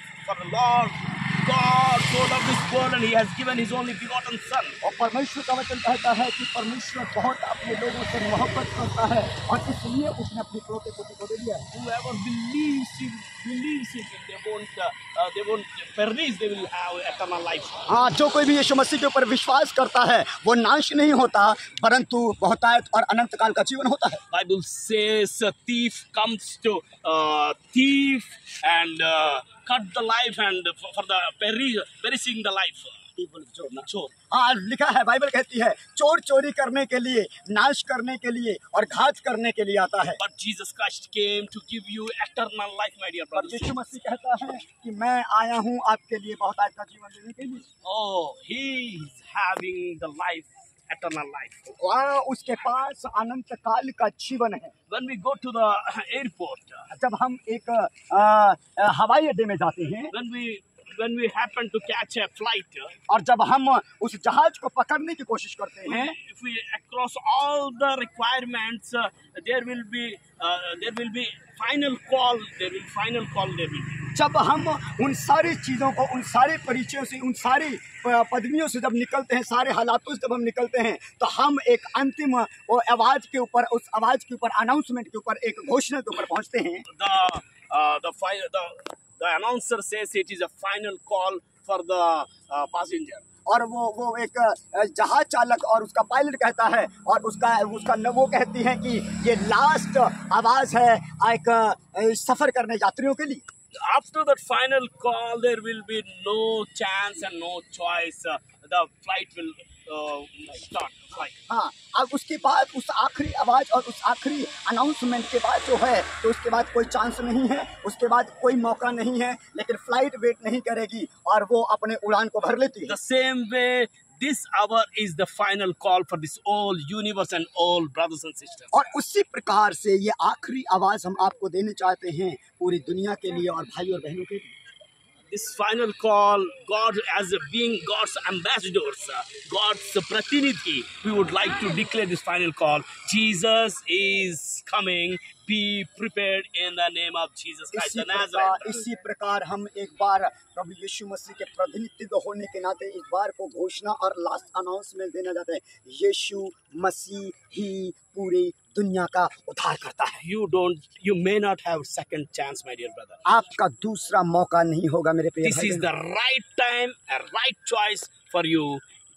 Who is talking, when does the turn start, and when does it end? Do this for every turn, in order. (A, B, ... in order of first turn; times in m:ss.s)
0:00.2-0:04.8 A
0:04.8-0:11.7 B
0:11.7-0:17.8 A
0:17.9-0:24.2 B
0:24.3-0:33.0 A
0:33.2-0:40.2 B
0:33.8-0:34.1 A
0:40.2-0:43.8 A
0:43.3-0:47.7 B
0:47.8-0:51.6 A
0:51.7-0:54.7 B
0:54.9-0:56.9 A
0:56.9-1:00.1 B
1:00.1-1:03.0 A
1:03.1-1:06.2 B
1:05.8-1:14.1 A
1:14.2-1:26.9 B
1:26.9-1:33.2 A
1:33.5-1:43.4 B
1:43.8-1:51.4 A
1:51.5-2:03.0 B
2:02.9-2:08.8 A
2:08.7-2:14.6 B
2:15.3-2:28.8 A
2:27.7-2:40.2 B
2:40.2-2:43.2 A
2:43.2-2:45.9 B
2:45.4-2:48.8 A